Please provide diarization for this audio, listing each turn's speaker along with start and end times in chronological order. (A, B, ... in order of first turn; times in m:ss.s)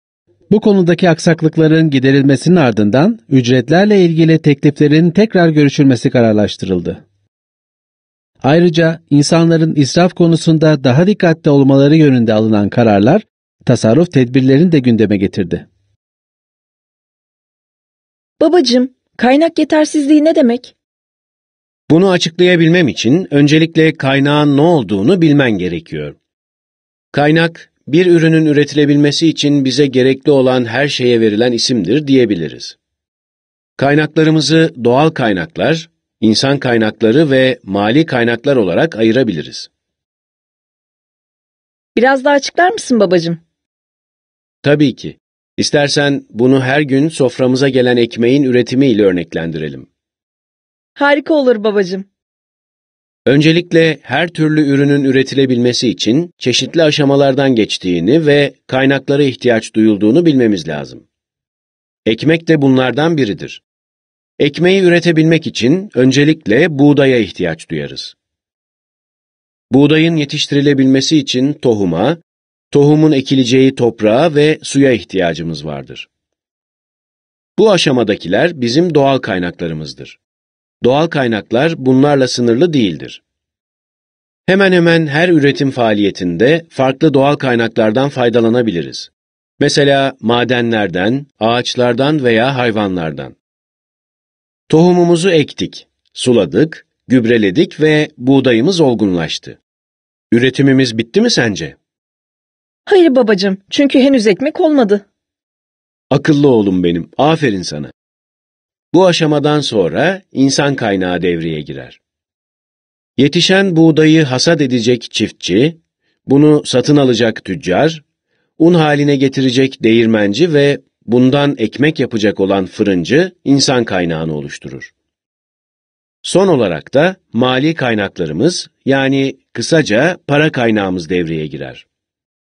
0:00.5-0:07.0 A
0:08.4-0:15.6 A
0:18.4-0:20.7 B
0:21.9-0:26.2 C
0:27.1-0:32.8 C
0:33.8-0:39.7 C
0:42.0-0:43.4 B
0:44.6-0:49.9 C
0:51.0-0:52.1 B
0:53.3-1:01.0 C
1:02.1-1:03.6 C
1:04.4-1:08.2 C
1:09.7-1:16.1 C
1:17.6-1:20.2 C
1:20.8-1:23.2 C
1:24.5-1:33.4 C
1:34.7-1:39.6 C
1:40.3-1:41.8 C
1:42.9-1:45.0 B
1:46.1-1:47.9 C
1:48.9-1:52.0 C
1:53.2-1:58.0 C
1:58.6-2:04.9 C
2:06.2-2:11.8 C